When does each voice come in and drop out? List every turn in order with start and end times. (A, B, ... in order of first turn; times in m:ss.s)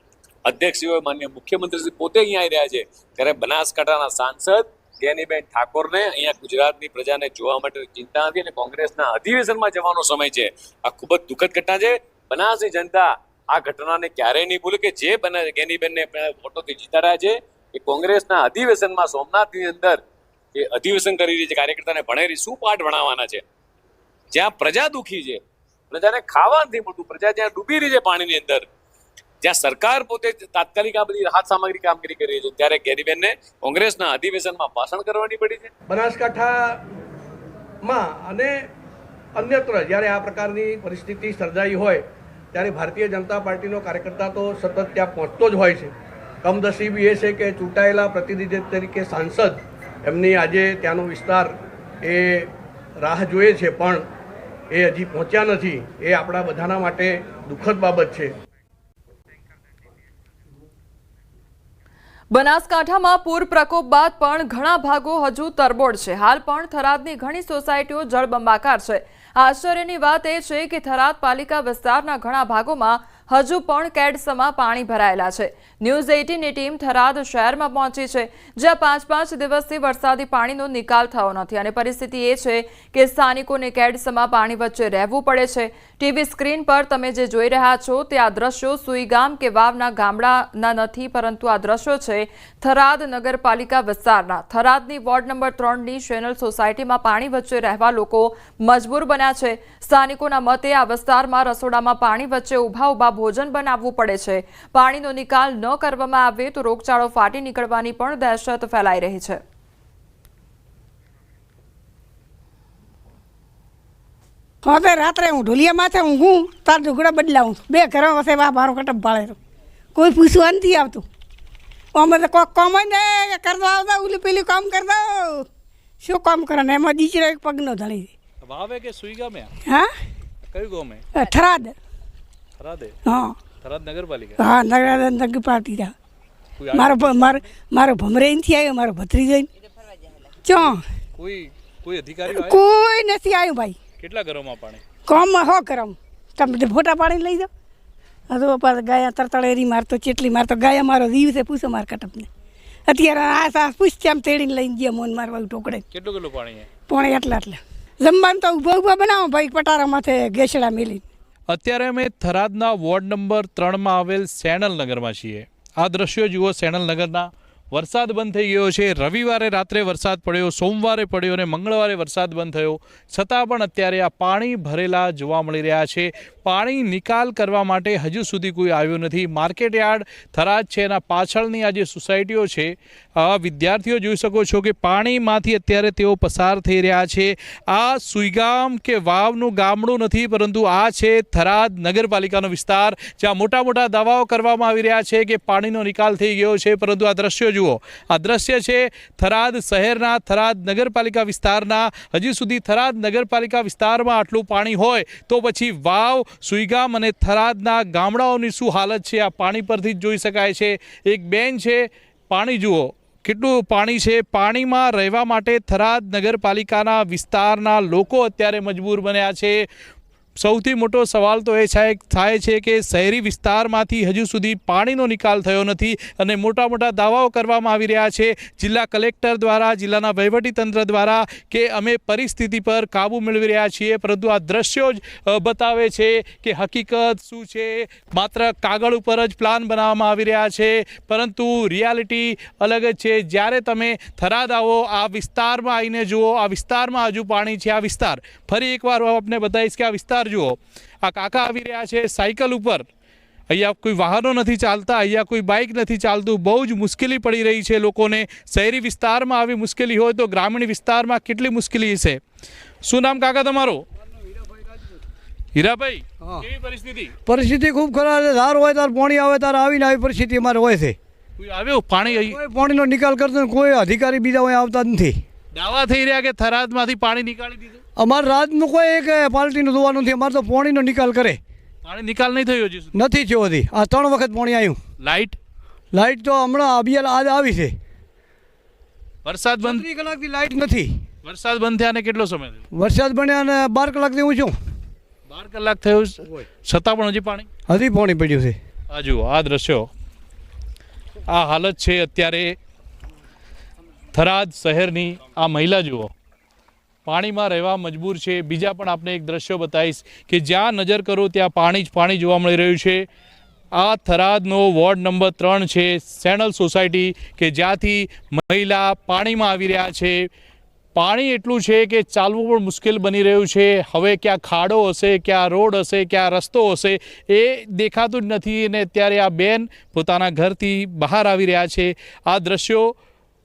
0:00.4-0:20.0 A
0:20.5-0:23.4 A
0:24.3-0:25.4 A
0:25.9-0:28.6 A
0:29.4-0:35.7 A
0:35.9-0:36.8 B
0:37.8-0:38.6 B
0:39.4-0:45.9 B
0:46.4-0:51.5 B
0:52.0-0:52.5 B
0:53.0-0:54.0 B
0:54.7-0:58.3 B
1:02.3-1:49.4 C
1:54.6-1:59.4 D
1:59.9-2:01.0 D
2:01.9-2:05.5 D
2:06.0-2:08.1 D
2:08.4-2:09.5 E
2:10.5-2:11.0 E
2:11.1-2:11.8 D
2:12.6-2:13.0 E
2:13.0-2:13.4 D
2:13.6-2:14.4 E
2:14.4-2:15.9 D
2:16.6-2:17.4 E
2:16.7-2:19.5 D
2:20.4-2:20.8 D
2:21.2-2:22.6 E
2:22.3-2:23.8 D
2:24.0-2:24.8 E
2:25.0-2:27.5 D
2:28.3-2:32.3 D
2:32.9-2:35.8 D
2:35.9-2:36.7 E
2:36.9-2:41.0 D
2:41.5-3:39.6 E
3:40.4-4:12.8 E
4:13.5-4:22.2 E
4:22.8-4:23.8 E
4:25.5-4:27.1 E
4:26.2-4:26.4 F
4:27.2-4:31.0 F
4:31.4-4:32.4 E
4:32.1-4:35.2 F
4:35.5-4:37.8 E
4:38.0-4:41.4 F
4:41.8-4:43.0 E
4:42.9-4:44.8 F
4:45.0-4:45.4 E
4:45.9-4:47.8 F
4:49.2-4:49.9 E
4:49.6-4:51.0 F
4:51.2-4:52.6 E
4:52.7-4:54.6 F
4:55.3-4:57.5 E
4:57.7-4:58.6 F
4:58.9-4:59.9 E
5:01.3-5:02.6 E
5:04.1-5:06.1 E
5:07.0-5:13.0 E
5:13.8-5:20.3 E
5:21.0-5:32.9 E